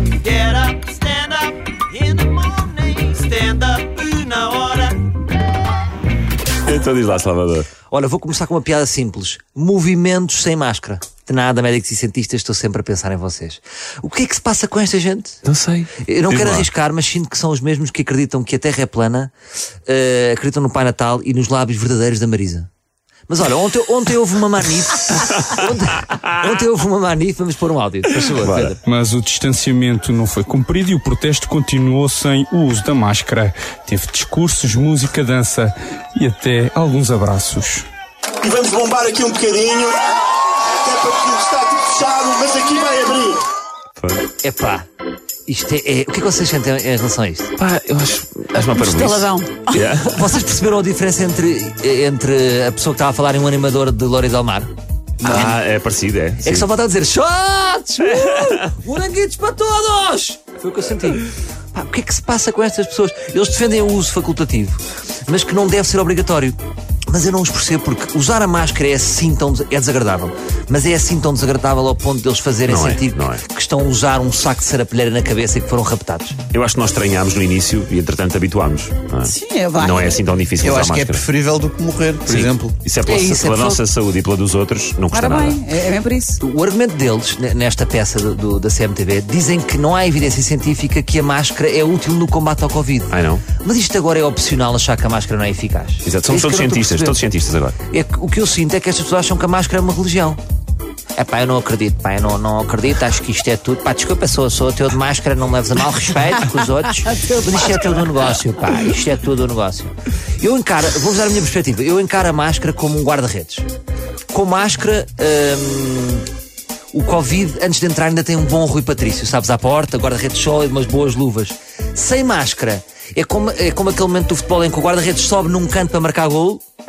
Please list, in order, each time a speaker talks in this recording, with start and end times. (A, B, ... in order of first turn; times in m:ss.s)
0:00.2-0:05.0 A
0:06.6-0:07.7 B
0:07.9-0:15.4 C
0:15.4-0:16.6 B
0:16.0-0:19.3 C
0:19.9-0:22.7 C
0:23.3-0:28.8 C
0:28.4-0:28.8 B
0:28.8-0:37.8 D
0:38.4-0:40.1 E
0:40.8-0:43.4 E
0:44.0-0:44.2 B
0:44.4-0:44.8 C
0:45.5-0:47.5 C
0:47.6-0:50.2 B
0:48.5-0:49.7 F
0:49.7-0:54.7 C
0:55.2-0:56.7 B
0:56.4-1:06.5 C
1:07.1-1:16.4 C
1:12.7-1:13.4 B
1:16.5-1:21.3 B
1:19.2-1:20.2 F
1:20.6-1:22.8 G
1:22.2-1:25.6 B
1:23.0-1:23.8 C
1:25.1-1:26.4 F
1:26.4-1:37.2 C
1:33.1-1:33.4 B
1:36.0-1:37.8 B
1:37.9-1:40.4 C
1:41.2-1:53.6 C
1:54.3-1:56.2 C
1:56.9-2:06.6 C